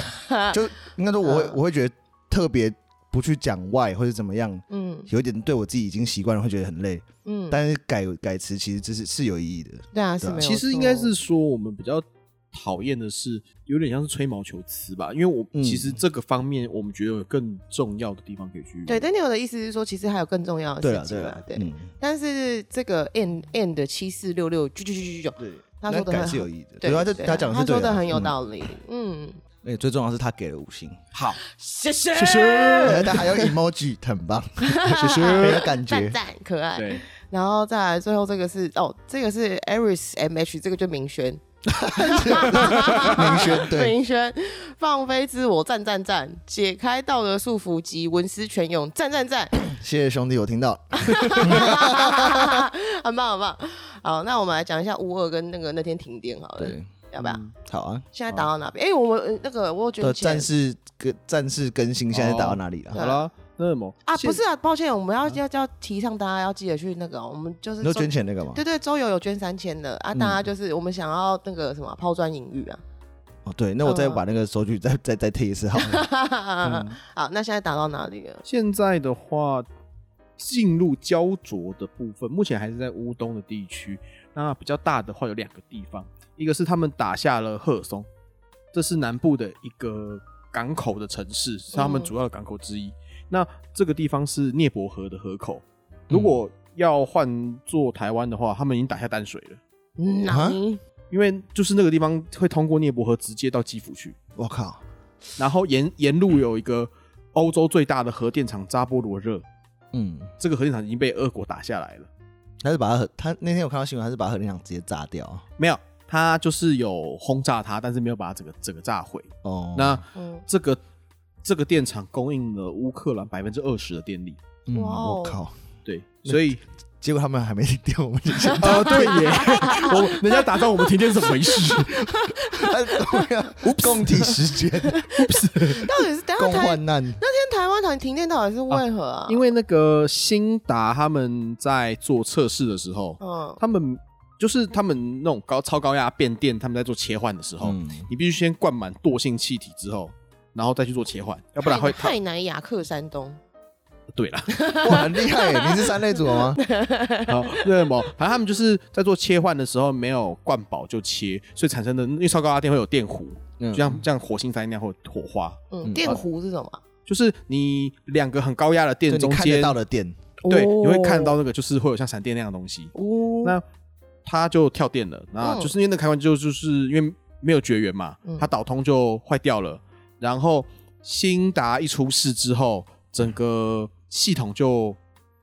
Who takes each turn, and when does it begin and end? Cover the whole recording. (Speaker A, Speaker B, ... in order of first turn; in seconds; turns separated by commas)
Speaker A: 0.2-0.6, Speaker B: 0.5-10.5, Speaker A: 1.2-1.6, Speaker A: 4.7-5.1, Speaker A: 7.2-7.6, Speaker A: 9.9-11.1, Speaker C: 10.4-19.1, Speaker B: 15.5-16.0, Speaker A: 18.9-29.4, Speaker B: 20.8-21.9, Speaker B: 25.4-28.4, Speaker B: 29.6-31.0, Speaker C: 31.1-31.4, Speaker A: 31.4-33.2, Speaker C: 32.1-33.5, Speaker B: 32.9-36.2, Speaker A: 34.7-41.4, Speaker C: 34.9-35.7, Speaker C: 36.8-37.0, Speaker B: 41.7-44.0, Speaker A: 42.0-49.6, Speaker C: 43.0-43.3, Speaker B: 49.6-52.6, Speaker A: 51.0-57.4, Speaker B: 56.6-56.9, Speaker C: 57.2-57.5, Speaker B: 57.6-58.5, Speaker A: 58.1-60.5, Speaker B: 60.0-63.0, Speaker C: 62.1-64.4, Speaker A: 62.9-63.3, Speaker A: 64.1-72.8, Speaker B: 67.8-68.6, Speaker B: 70.1-70.5, Speaker B: 73.5-76.1, Speaker A: 73.8-74.2, Speaker A: 75.8-78.4, Speaker B: 76.6-77.0, Speaker C: 78.5-79.7, Speaker C: 80.4-88.1, Speaker C: 88.7-99.6, Speaker A: 91.7-92.1, Speaker B: 96.1-96.4, Speaker A: 100.0-100.8, Speaker B: 100.3-100.6, Speaker C: 101.1-104.2, Speaker B: 104.4-104.8, Speaker C: 105.4-109.4, Speaker B: 109.9-110.3, Speaker C: 110.4-112.1, Speaker B: 112.6-115.5, Speaker C: 115.6-120.8, Speaker B: 119.4-120.0, Speaker A: 120.1-120.5, Speaker C: 121.4-124.4, Speaker B: 124.7-125.5, Speaker A: 124.7-125.4, Speaker C: 125.9-126.6, Speaker B: 126.3-129.5, Speaker A: 128.4-139.4, Speaker C: 128.6-132.0, Speaker B: 131.6-135.1, Speaker C: 133.7-134.2, Speaker C: 135.2-135.8, Speaker B: 136.4-137.2, Speaker C: 138.7-152.2, Speaker A: 143.2-143.6, Speaker B: 147.6-148.1, Speaker A: 151.6-153.4, Speaker C: 154.2-154.5, Speaker A: 154.5-157.9, Speaker B: 154.8-156.6, Speaker C: 157.3-166.2, Speaker B: 163.6-164.1, Speaker A: 165.7-166.8, Speaker B: 165.8-166.2, Speaker C: 167.1-169.8, Speaker B: 169.1-170.2, Speaker A: 170.4-171.4, Speaker C: 170.5-173.6, Speaker A: 172.9-173.6, Speaker C: 174.2-185.0, Speaker A: 175.4-175.7